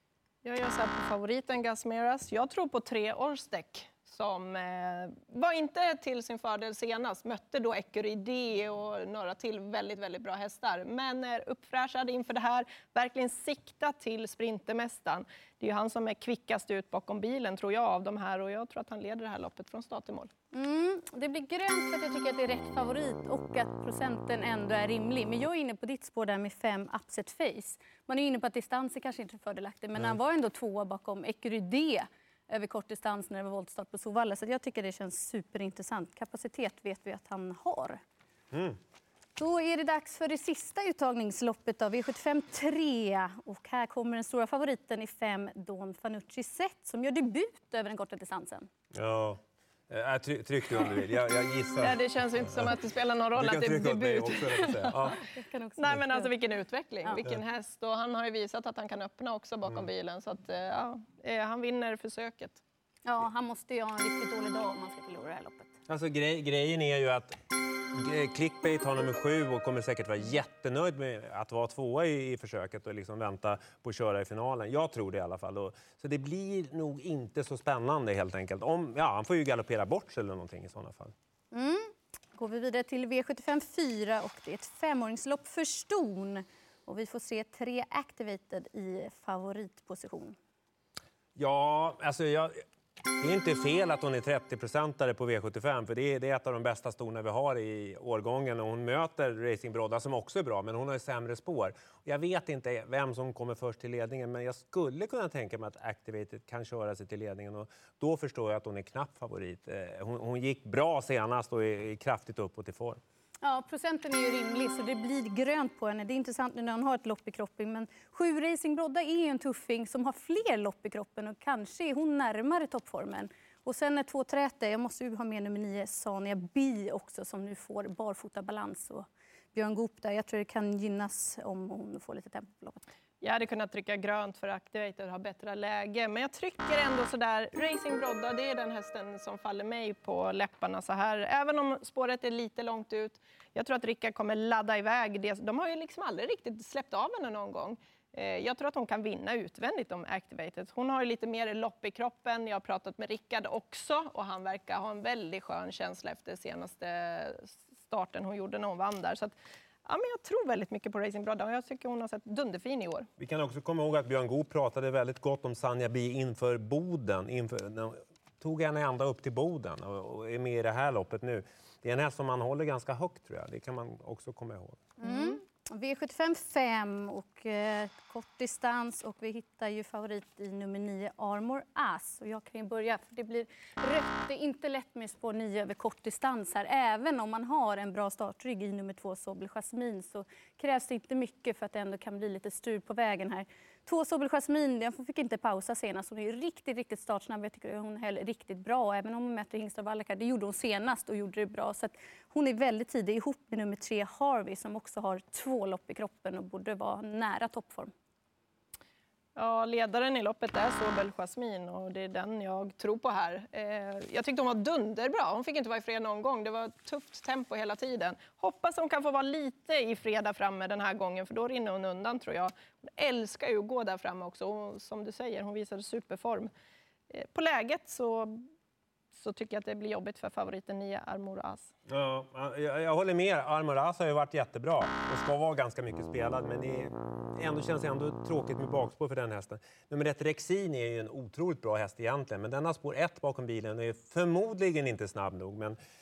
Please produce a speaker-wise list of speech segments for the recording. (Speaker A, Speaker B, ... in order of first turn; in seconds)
Speaker A: 0.4-20.3, 51.8-55.1, 55.8-62.6, 133.2-163.1, 209.3-226.5, 227.1-228.4, 229.1-231.7
Speaker B: 20.5-38.0, 39.4-48.7, 55.0-56.3, 63.0-65.7, 81.5-90.3, 113.4-132.8, 175.0-207.9
Speaker C: 38.5-38.8, 48.9-52.7, 53.3-55.2, 65.9-67.4, 67.9-81.1, 91.3-92.5, 93.2-113.0, 163.2-174.8, 231.9-245.8